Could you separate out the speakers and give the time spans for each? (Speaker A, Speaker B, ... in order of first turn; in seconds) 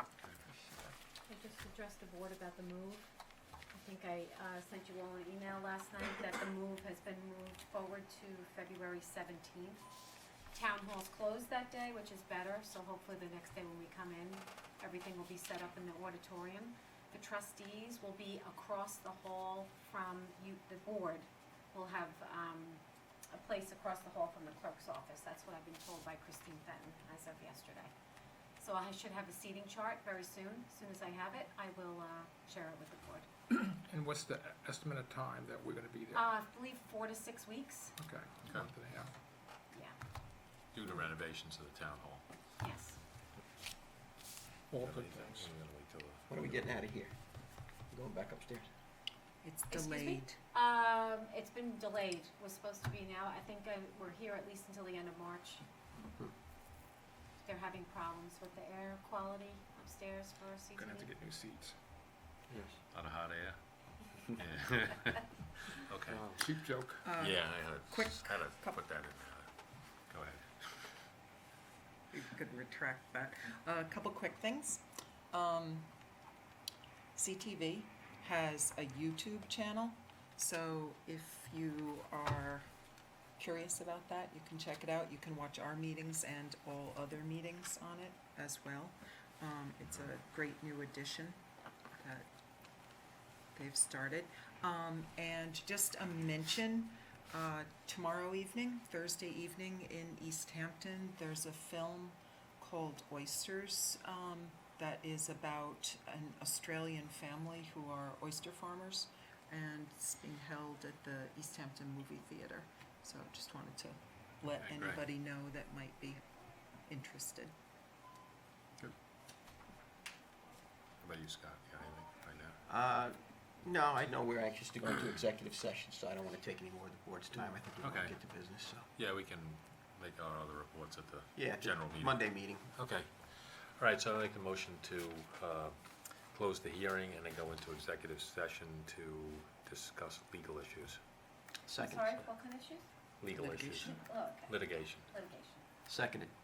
Speaker A: 0.4-1.0, 49.4-50.4, 67.0-68.8, 72.1-75.9, 77.2-82.7, 83.4-91.4, 91.9-92.3, 93.5-116.2, 116.9-117.5, 143.4-144.0
Speaker B: 1.3-3.1, 3.7-9.8, 10.5-27.9, 28.6-33.3, 36.1-38.0, 39.7-40.0, 42.6-43.0, 49.7-55.6, 57.4-61.1, 141.8-142.9, 143.8-145.7
Speaker C: 33.5-36.2, 38.0-39.1, 44.7-45.5, 60.8-61.8, 66.4-67.0
Speaker D: 40.7-42.3, 44.8-46.8, 62.9-66.4, 67.2-71.1, 114.5-115.0, 121.0-122.6, 127.7-141.0, 143.2-145.1
Speaker E: 46.3-47.2, 47.9-48.7, 62.5-62.8, 122.7-128.9, 131.3-132.8, 141.7-142.2, 145.9-146.3